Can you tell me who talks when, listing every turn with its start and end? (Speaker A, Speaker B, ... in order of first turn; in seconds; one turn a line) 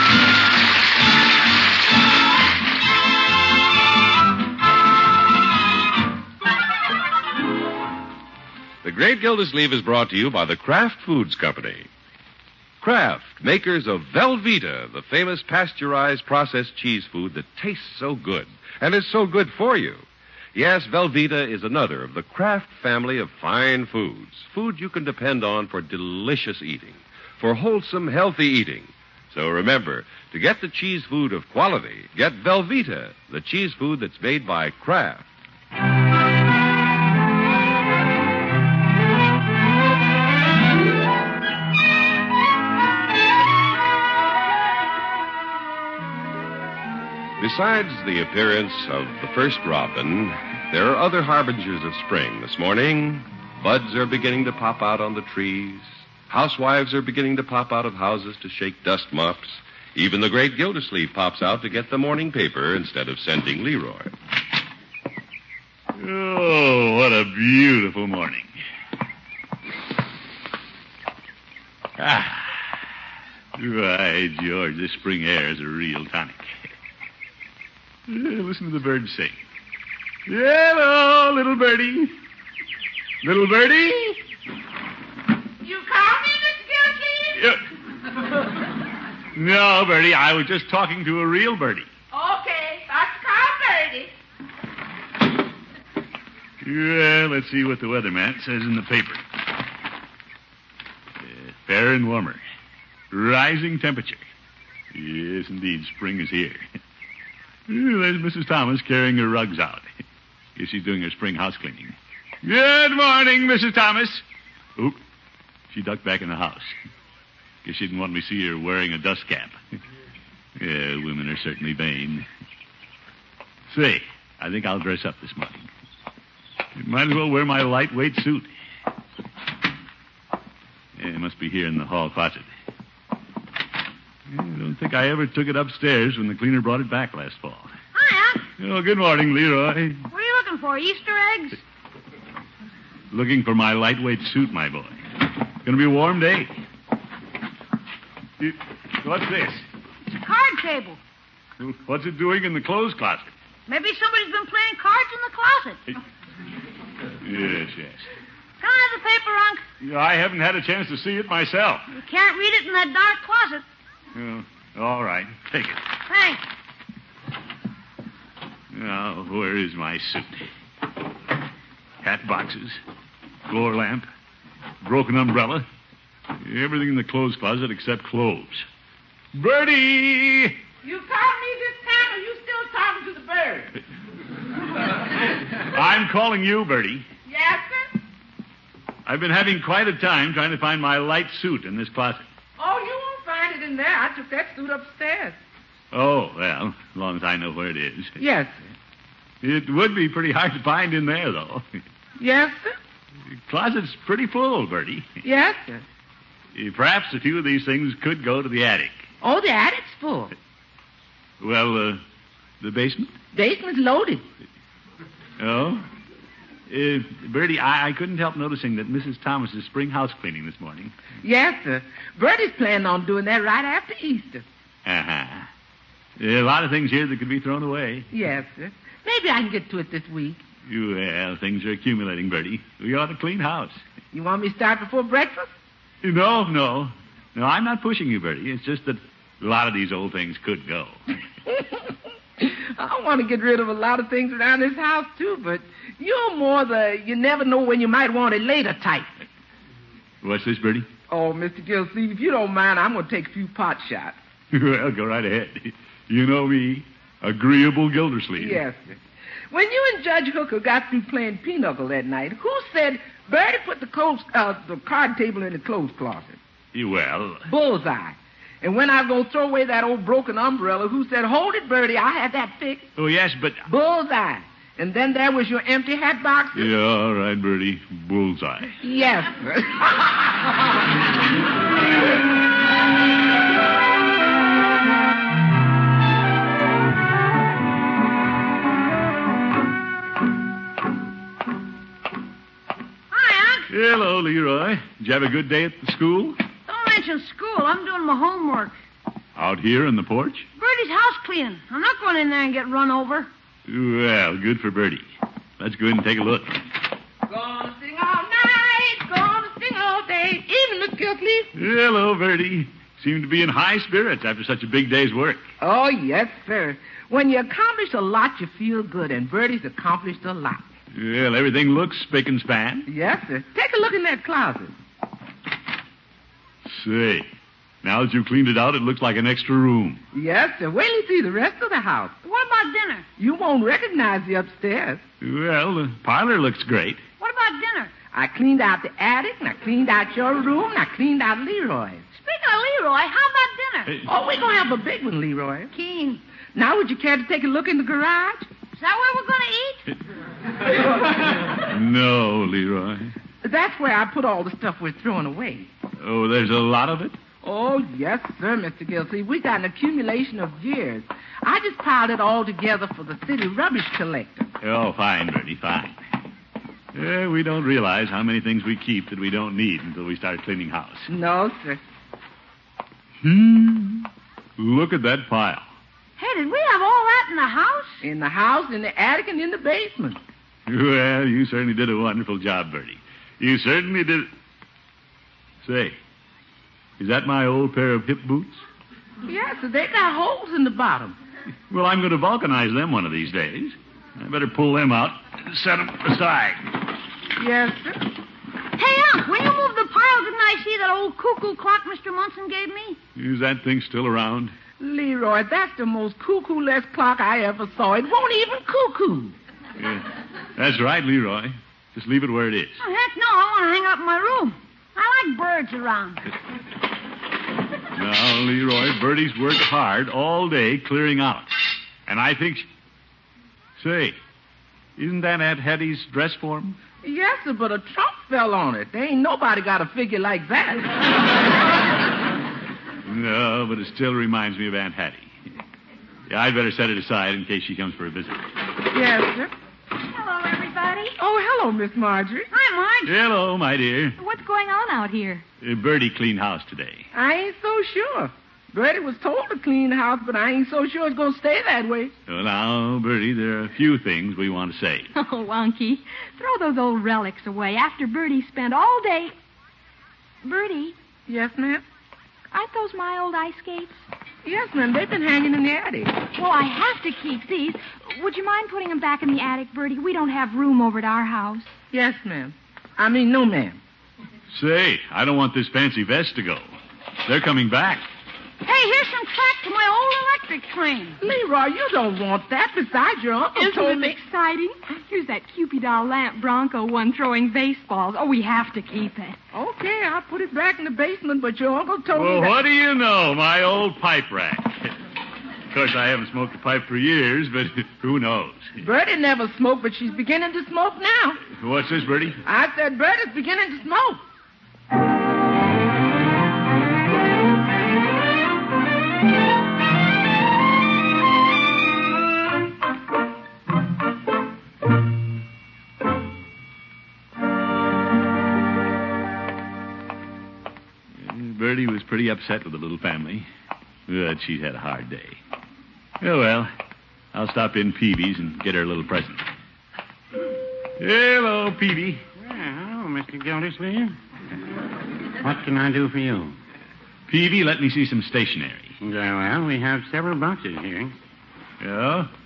Speaker A: 8.8-11.9
Speaker A: 12.8-35.3
Speaker A: 47.4-64.1
Speaker B: 66.0-68.5
Speaker B: 72.0-72.7
Speaker B: 73.6-76.7
Speaker B: 78.1-79.3
Speaker B: 80.3-82.1
Speaker B: 83.2-84.2
Speaker C: 85.6-87.4
Speaker B: 87.4-87.6
Speaker B: 89.3-91.9
Speaker C: 92.1-94.1
Speaker B: 96.6-99.2
Speaker B: 101.2-102.4
Speaker B: 103.1-104.2
Speaker B: 104.9-106.7
Speaker B: 107.7-109.9
Speaker B: 110.6-114.2
Speaker B: 115.7-116.8
Speaker B: 117.7-119.6
Speaker B: 120.6-122.3
Speaker B: 123.7-125.7
Speaker B: 126.8-128.5
Speaker B: 131.0-132.5
Speaker B: 134.3-137.7
Speaker D: 137.9-138.5
Speaker B: 138.6-140.1
Speaker D: 140.1-141.6
Speaker B: 143.1-145.0
Speaker B: 145.7-146.6
Speaker B: 148.4-149.7
Speaker D: 150.1-151.0
Speaker B: 151.6-153.3
Speaker D: 153.7-155.8
Speaker B: 157.2-158.1
Speaker D: 158.6-159.6
Speaker B: 159.8-161.9
Speaker D: 162.0-163.6
Speaker B: 164.2-165.9
Speaker D: 166.1-166.4
Speaker B: 168.7-170.5
Speaker B: 172.0-172.8
Speaker B: 173.5-174.1
Speaker B: 174.8-175.7
Speaker B: 176.3-178.7
Speaker B: 179.3-180.6
Speaker C: 180.8-183.7
Speaker B: 185.6-187.1
Speaker C: 187.3-188.0
Speaker B: 189.1-192.3
Speaker C: 192.6-195.4
Speaker B: 195.9-198.1
Speaker C: 198.2-198.6
Speaker B: 199.4-201.7
Speaker C: 202.2-202.8
Speaker B: 203.5-205.1
Speaker C: 205.2-205.8
Speaker B: 206.6-209.1
Speaker C: 209.2-210.3
Speaker B: 211.4-212.0
Speaker B: 212.6-213.1
Speaker C: 213.3-214.2
Speaker B: 215.4-215.8
Speaker B: 216.7-220.9
Speaker C: 221.2-224.4
Speaker B: 224.8-225.5
Speaker B: 226.2-228.1
Speaker C: 228.1-230.4
Speaker B: 230.7-233.8
Speaker C: 234.1-235.5
Speaker B: 236.0-241.0
Speaker C: 241.5-249.1
Speaker B: 250.2-250.9
Speaker C: 251.1-254.2
Speaker B: 254.5-258.6
Speaker C: 258.4-259.0
Speaker C: 259.5-266.4
Speaker B: 266.7-267.5
Speaker C: 267.5-272.9
Speaker B: 273.0-273.6
Speaker C: 273.7-276.7
Speaker B: 276.6-278.8
Speaker C: 278.8-280.5
Speaker D: 293.1-293.7
Speaker B: 293.7-296.4
Speaker D: 296.7-298.8
Speaker B: 299.4-300.5
Speaker D: 300.6-303.3
Speaker B: 303.7-305.0
Speaker B: 305.6-306.6
Speaker C: 307.3-311.5
Speaker B: 311.5-315.4
Speaker C: 315.6-320.6
Speaker B: 320.9-322.9
Speaker C: 322.9-324.7
Speaker B: 326.7-327.3
Speaker B: 327.8-330.0
Speaker C: 330.1-332.2
Speaker D: 332.2-333.1
Speaker C: 333.2-335.0
Speaker B: 335.2-337.0
Speaker D: 337.2-337.9
Speaker C: 338.1-342.0
Speaker D: 342.1-343.9
Speaker C: 344.1-345.7
Speaker D: 345.7-346.2
Speaker C: 346.5-348.5
Speaker D: 348.7-349.9
Speaker B: 351.5-353.1
Speaker C: 353.4-355.7
Speaker B: 356.0-357.2
Speaker C: 357.4-364.5
Speaker B: 364.6-366.0
Speaker B: 366.9-371.1
Speaker C: 371.1-371.8
Speaker B: 373.2-375.6
Speaker D: 376.2-378.0
Speaker C: 378.0-380.2
Speaker B: 380.7-384.3
Speaker B: 385.6-386.0
Speaker B: 387.0-388.6
Speaker C: 389.3-391.2
Speaker B: 391.7-396.6
Speaker C: 397.4-398.1
Speaker D: 398.8-403.0
Speaker B: 403.1-404.5
Speaker C: 404.8-409.4
Speaker B: 409.8-412.8
Speaker D: 412.8-416.2
Speaker B: 418.0-421.5
Speaker B: 422.1-422.7
Speaker B: 423.8-424.2
Speaker B: 425.0-426.8
Speaker C: 427.0-431.0
Speaker B: 433.1-435.3
Speaker B: 436.3-438.5
Speaker C: 438.9-439.5
Speaker E: 440.1-441.1
Speaker C: 441.2-442.5
Speaker D: 442.5-443.1
Speaker B: 443.1-444.2
Speaker E: 444.2-445.4
Speaker B: 445.6-447.1
Speaker C: 447.1-452.1
Speaker B: 452.3-455.1
Speaker E: 455.1-459.3
Speaker E: 460.4-461.0
Speaker C: 461.3-461.8
Speaker E: 462.5-464.0
Speaker C: 464.4-466.2
Speaker E: 466.3-471.7
Speaker C: 471.9-473.8
Speaker B: 474.5-476.6
Speaker B: 477.3-478.0
Speaker D: 478.6-481.2
Speaker C: 481.2-484.2
Speaker E: 483.6-489.4
Speaker C: 489.5-492.6
Speaker B: 492.1-494.9
Speaker B: 495.7-498.8
Speaker C: 498.8-501.4
Speaker B: 501.5-502.4
Speaker C: 502.4-504.2
Speaker B: 521.2-523.5
Speaker B: 524.1-525.4
Speaker B: 526.2-526.7
Speaker B: 527.3-529.5
Speaker B: 531.0-532.2
Speaker F: 532.4-534.2
Speaker F: 535.4-536.6
Speaker B: 537.3-538.9
Speaker F: 539.0-541.1
Speaker B: 541.8-542.3